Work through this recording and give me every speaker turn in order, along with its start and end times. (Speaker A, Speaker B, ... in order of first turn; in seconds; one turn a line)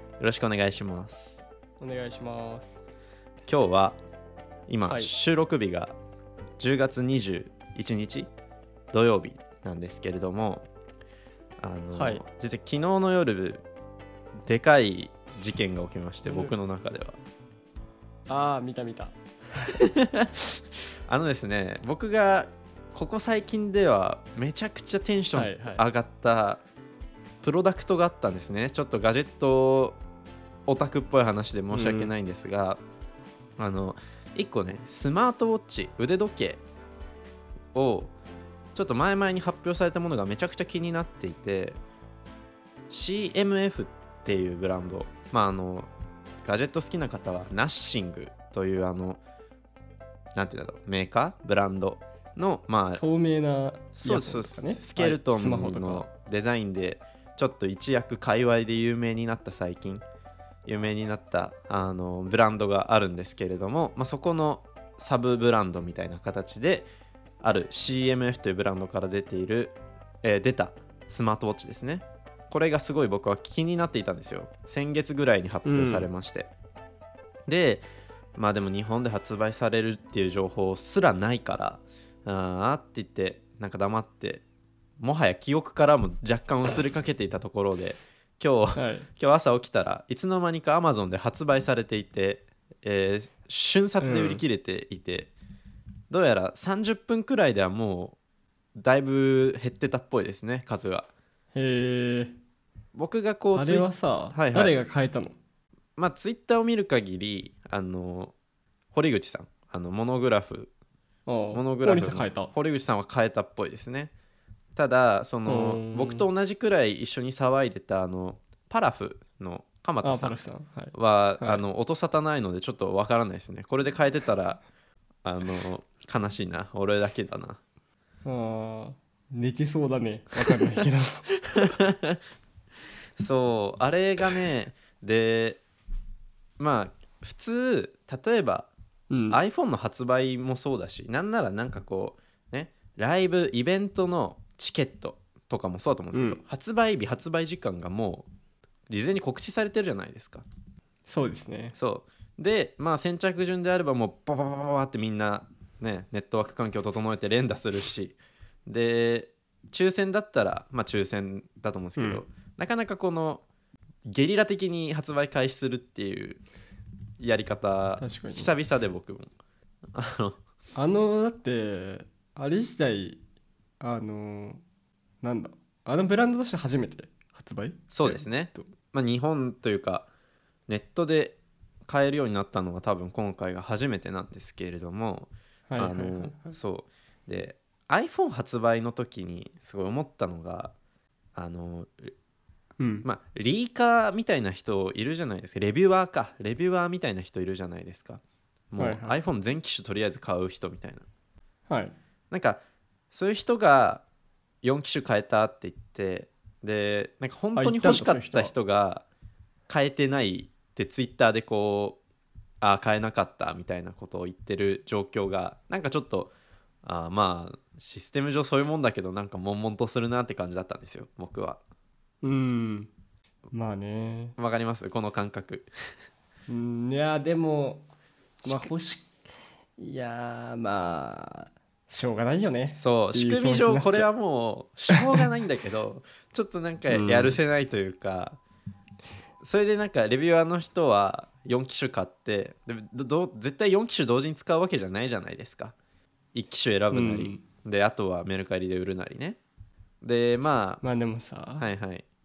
Speaker A: 0.2-1.4
Speaker B: 1.8-2.8
Speaker A: 3.5-4.0
Speaker A: 4.7-6.0
Speaker A: 6.6-8.3
Speaker A: 8.9-10.7
Speaker A: 11.6-13.7
Speaker B: 11.9-12.2
Speaker A: 14.4-17.2
Speaker B: 16.2-16.6
Speaker B: 18.3-19.7
Speaker A: 19.7-26.6
Speaker B: 25.3-25.8
Speaker A: 27.4-30.0
Speaker A: 30.7-32.8
Speaker B: 31.7-32.1
Speaker A: 33.6-36.6
Speaker A: 37.7-38.1
Speaker A: 38.8-41.8
Speaker A: 42.9-45.9
Speaker A: 46.5-49.2
Speaker A: 50.4-53.0
Speaker B: 53.0-56.1
Speaker A: 54.0-60.0
Speaker A: 60.6-66.9
Speaker A: 67.4-76.5
Speaker B: 75.7-76.1
Speaker A: 77.5-77.8
Speaker A: 78.4-84.4
Speaker A: 85.0-95.3
Speaker B: 88.8-89.1
Speaker B: 94.0-94.4
Speaker A: 96.1-98.2
Speaker A: 98.8-101.1
Speaker B: 101.5-102.4
Speaker A: 102.9-104.7
Speaker B: 103.5-105.4
Speaker A: 106.0-108.3
Speaker A: 108.9-110.7
Speaker B: 111.3-112.5
Speaker A: 111.5-114.1
Speaker A: 114.8-120.4
Speaker B: 115.5-116.3
Speaker B: 120.0-121.6
Speaker A: 120.9-124.6
Speaker A: 125.2-127.6
Speaker B: 128.2-131.3
Speaker A: 131.5-132.2
Speaker A: 133.2-135.6
Speaker A: 136.6-138.7
Speaker B: 139.1-139.4
Speaker A: 139.3-148.3
Speaker B: 146.1-146.4
Speaker A: 148.9-150.4
Speaker B: 151.1-151.8
Speaker A: 151.8-163.4
Speaker B: 162.0-162.2
Speaker A: 164.1-166.4
Speaker A: 167.2-169.3
Speaker B: 168.0-168.5
Speaker A: 169.9-170.4
Speaker B: 170.8-173.2
Speaker B: 173.8-174.6
Speaker B: 175.2-178.7
Speaker A: 177.9-180.1
Speaker A: 180.7-190.7
Speaker B: 185.7-186.6
Speaker A: 191.4-192.1
Speaker B: 192.8-193.1
Speaker A: 193.0-201.0
Speaker B: 198.8-199.2
Speaker B: 201.7-202.0
Speaker A: 202.3-202.6
Speaker A: 203.1-204.0
Speaker A: 204.6-209.1
Speaker B: 207.6-208.5
Speaker A: 209.7-212.0
Speaker A: 212.6-216.3
Speaker A: 216.8-221.6
Speaker B: 222.2-222.9
Speaker B: 223.5-224.3
Speaker A: 224.4-225.7
Speaker B: 226.5-227.8
Speaker B: 228.4-229.1
Speaker A: 228.4-228.7
Speaker B: 229.8-234.1
Speaker A: 232.8-238.4
Speaker B: 234.9-235.2
Speaker B: 236.9-237.4
Speaker A: 239.4-245.8
Speaker A: 246.3-249.4
Speaker B: 246.9-247.4
Speaker A: 250.0-250.8
Speaker B: 250.8-251.7
Speaker A: 251.6-252.1